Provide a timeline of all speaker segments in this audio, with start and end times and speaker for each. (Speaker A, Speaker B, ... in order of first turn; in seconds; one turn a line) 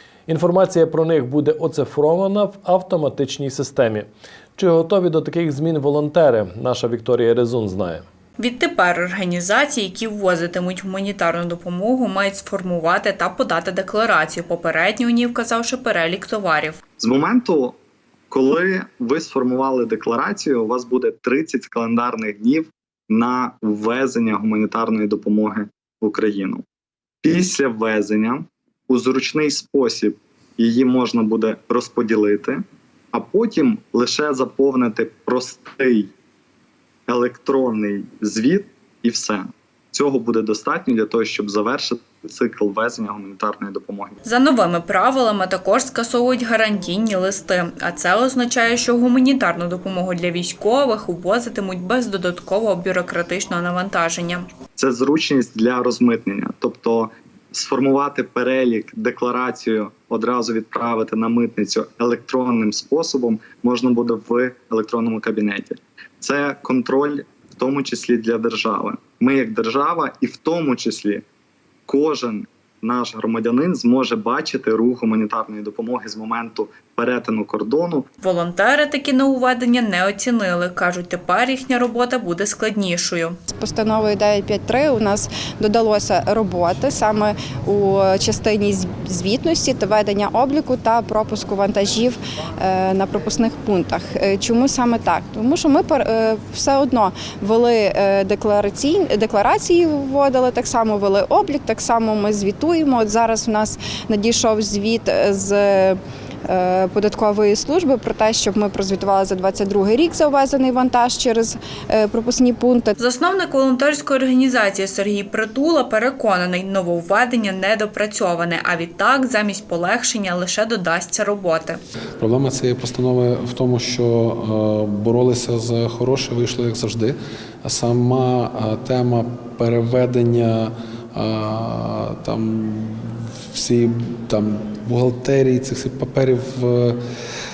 Speaker A: 0.3-8.1
Speaker B: 8.4-16.8
Speaker C: 17.0-17.8
Speaker C: 18.3-26.6
Speaker C: 27.2-32.6
Speaker C: 33.1-36.1
Speaker C: 37.1-44.2
Speaker B: 44.2-54.5
Speaker C: 54.8-71.2
Speaker C: 71.8-78.1
Speaker B: 78.2-83.3
Speaker D: 83.5-113.0
Speaker B: 113.0-121.8
Speaker E: 122.2-137.0